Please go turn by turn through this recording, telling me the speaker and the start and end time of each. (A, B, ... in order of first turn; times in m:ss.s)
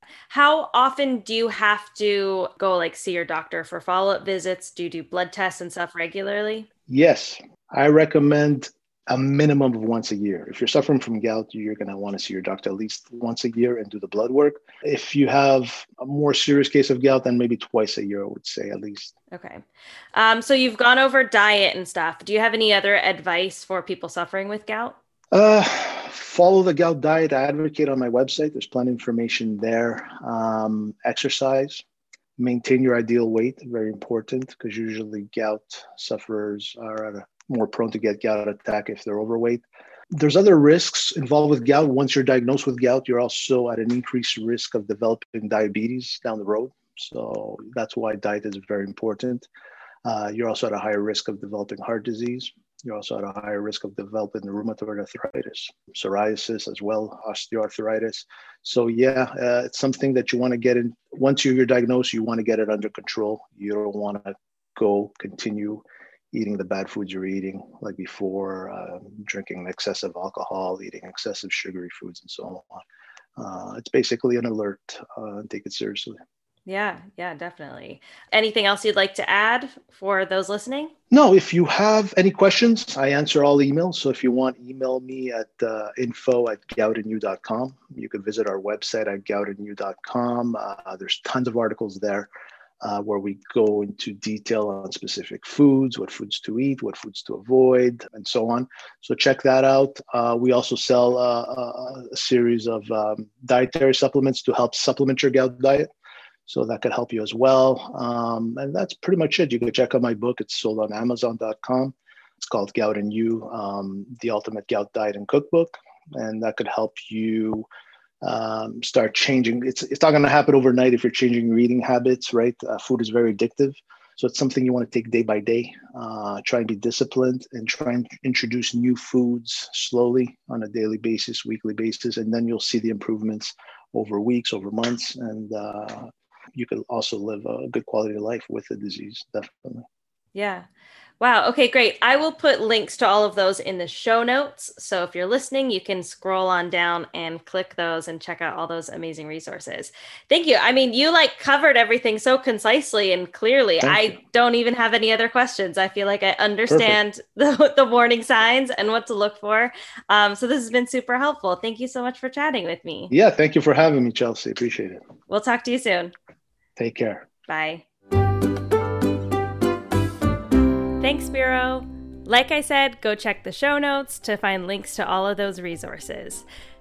0:00.3-0:06.7 A
0:06.9-0:19.1 B
0:19.3-0:19.6 A
0:20.1-0:25.0 A
0:25.3-0:31.8 B
0:32.4-0:49.5 B
0:50.0-1:12.8 B
1:13.4-1:16.1 B
1:16.7-1:20.9 A
1:21.1-1:32.3 B
1:32.8-1:45.9 B
1:46.5-1:57.7 B
1:58.2-2:19.8 B
2:20.4-2:20.7 A
2:21.2-2:43.1 A
2:33.8-2:34.2 B
2:36.7-2:37.0 B
2:43.1-2:45.0 B
2:45.3-2:46.1 A
2:46.8-2:47.3 B
2:47.5-2:47.8 A
2:51.0-2:56.4 A